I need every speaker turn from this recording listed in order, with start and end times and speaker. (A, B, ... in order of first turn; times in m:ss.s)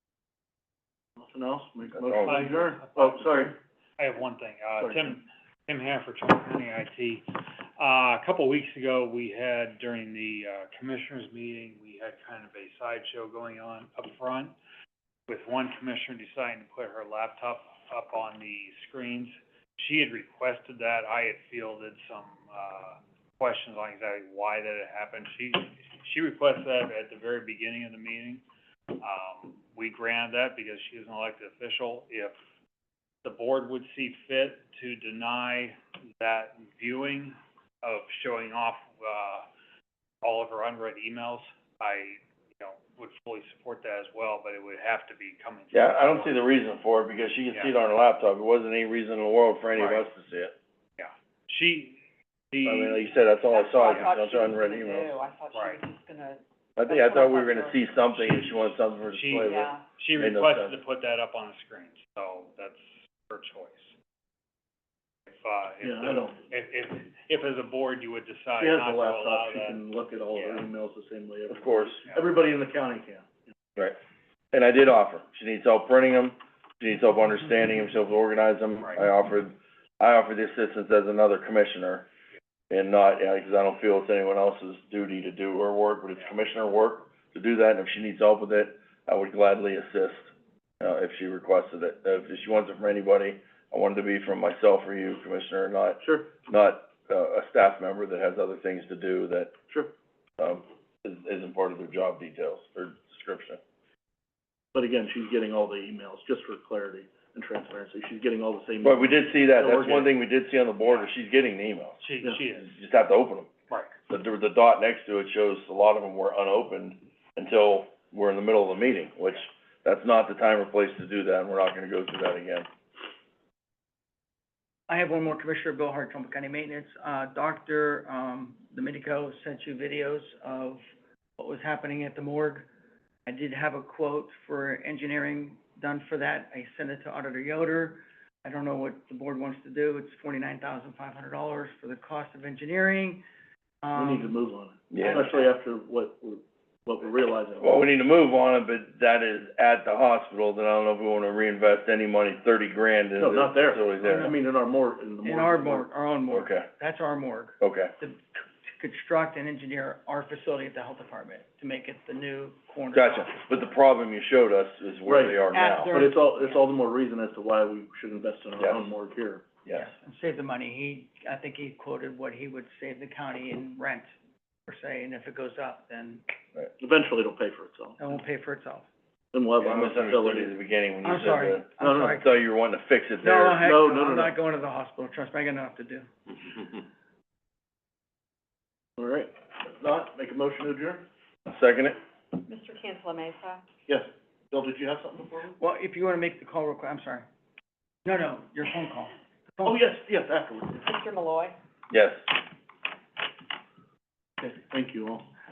0:01.2-0:03.5 A
0:02.0-0:02.4 B
0:02.2-0:14.5 C
0:04.8-0:05.1 A
0:15.3-0:32.4 C
0:33.2-0:39.5 C
0:40.2-0:46.4 C
0:45.7-0:50.5 B
0:49.8-0:50.0 C
0:51.0-0:52.0 C
0:52.5-0:53.2 C
0:52.6-0:55.1 B
0:53.5-0:57.9 D
0:55.5-0:55.8 C
0:56.8-1:00.8 B
0:58.2-0:58.5 C
0:59.1-1:03.9 C
0:59.4-0:59.9 D
1:05.3-1:10.7 C
1:05.8-1:06.4 A
1:08.6-1:13.5 A
1:11.5-1:12.0 B
1:14.5-1:22.1 B
1:22.7-1:39.6 B
1:36.0-1:36.3 A
1:40.4-1:43.6 B
1:44.7-1:50.1 A
1:48.8-1:52.0 B
1:52.0-1:52.8 C
1:52.5-1:53.5 B
1:54.1-2:02.7 B
2:04.9-2:10.8 E
2:11.4-2:12.7 E
2:13.3-2:23.2 E
2:23.8-2:24.4 E
2:24.0-2:27.8 A
2:24.9-2:25.3 B
2:25.0-2:25.5 E
2:27.6-2:34.4 B
2:33.2-2:35.9 A
2:34.1-2:34.3 E
2:35.2-2:43.4 E
2:36.3-2:36.7 B
2:37.6-2:37.9 B
2:42.9-2:46.0 B
2:45.0-2:49.6 A
2:45.5-2:46.6 E
2:48.6-2:48.9 B
2:49.7-2:54.1 E
2:54.7-2:56.2 E
2:56.8-2:58.0 A
2:58.0-2:58.9 E
2:59.3-3:00.5 A
2:59.6-3:03.7 B
3:01.0-3:02.3 E
3:01.8-3:02.2 A
3:03.2-3:06.1 E
3:03.6-3:04.4 A
3:09.0-3:11.1 A
3:11.5-3:12.0 B
3:12.4-3:13.6 D
3:13.9-3:15.6 A
3:15.6-3:17.3 E
3:18.0-3:19.8 E
3:19.6-3:20.9 A
3:20.8-3:21.6 D
3:21.9-3:22.3 B
3:24.4-3:25.3 A